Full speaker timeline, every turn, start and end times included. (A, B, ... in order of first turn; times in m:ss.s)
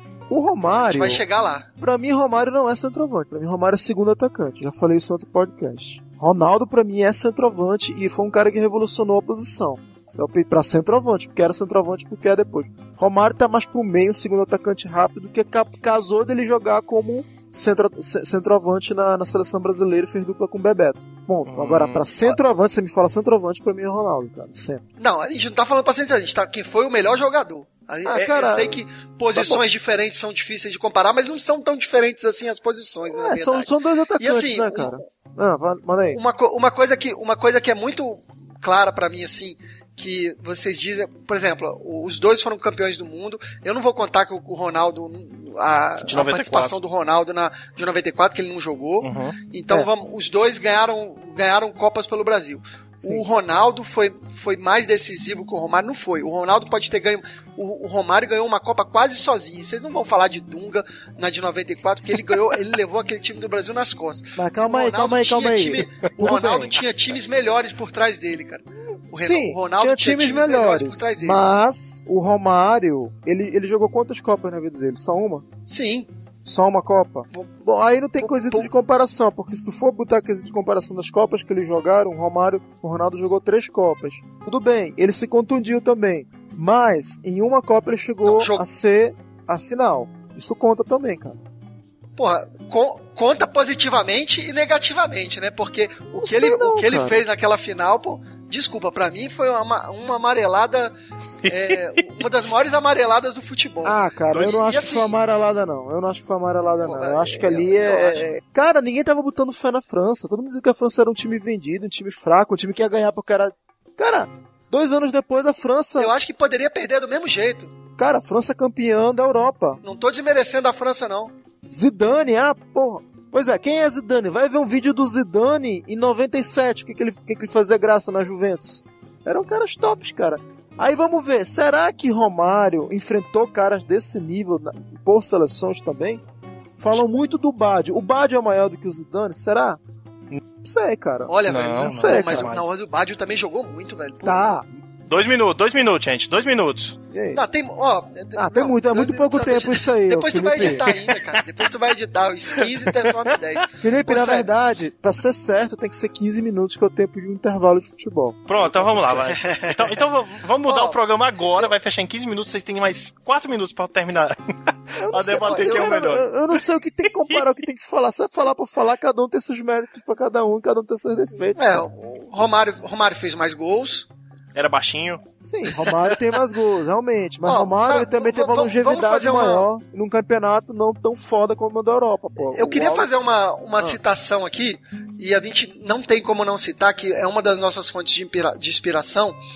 0:00.3-0:01.2 A
0:00.6-0:01.7 B
0:01.8-0:24.8 A
0:21.5-0:22.1 C
0:25.0-0:35.0 B
0:28.0-0:28.8 A
0:29.3-0:29.6 A
0:33.1-0:36.2 A
0:36.1-1:11.4 B
0:46.0-0:46.7 C
0:49.0-0:49.4 C
1:04.4-1:06.8 A
1:09.1-1:15.5 A
1:15.7-1:16.1 B
1:16.4-1:31.4 A
1:18.2-1:18.7 B
1:28.2-1:28.6 B
1:32.2-1:40.9 B
1:36.2-1:37.2 A
1:41.4-1:42.1 C
1:41.5-1:45.2 B
1:43.8-1:56.1 A
1:46.8-1:48.4 B
1:56.0-1:57.7 B
1:58.0-1:59.8 A
1:59.8-2:01.3 B
2:01.7-2:16.2 A
2:16.8-2:19.8 A
2:20.6-2:22.6 A
2:21.3-2:24.5 B
2:21.5-2:22.7 C
2:24.2-2:24.7 A
2:25.1-2:27.0 C
2:27.1-2:27.4 A
2:27.3-2:34.5 B
2:28.4-2:31.0 A
2:32.6-2:33.3 C
2:33.8-2:39.2 A
2:38.5-2:46.6 C
2:39.3-2:40.0 B
2:40.7-2:41.0 B
2:45.0-2:51.9 A
2:45.4-2:46.0 B
2:51.6-2:54.1 B
2:54.6-2:55.2 C
2:55.4-3:03.1 A
2:57.4-2:59.7 B
3:02.5-3:09.4 B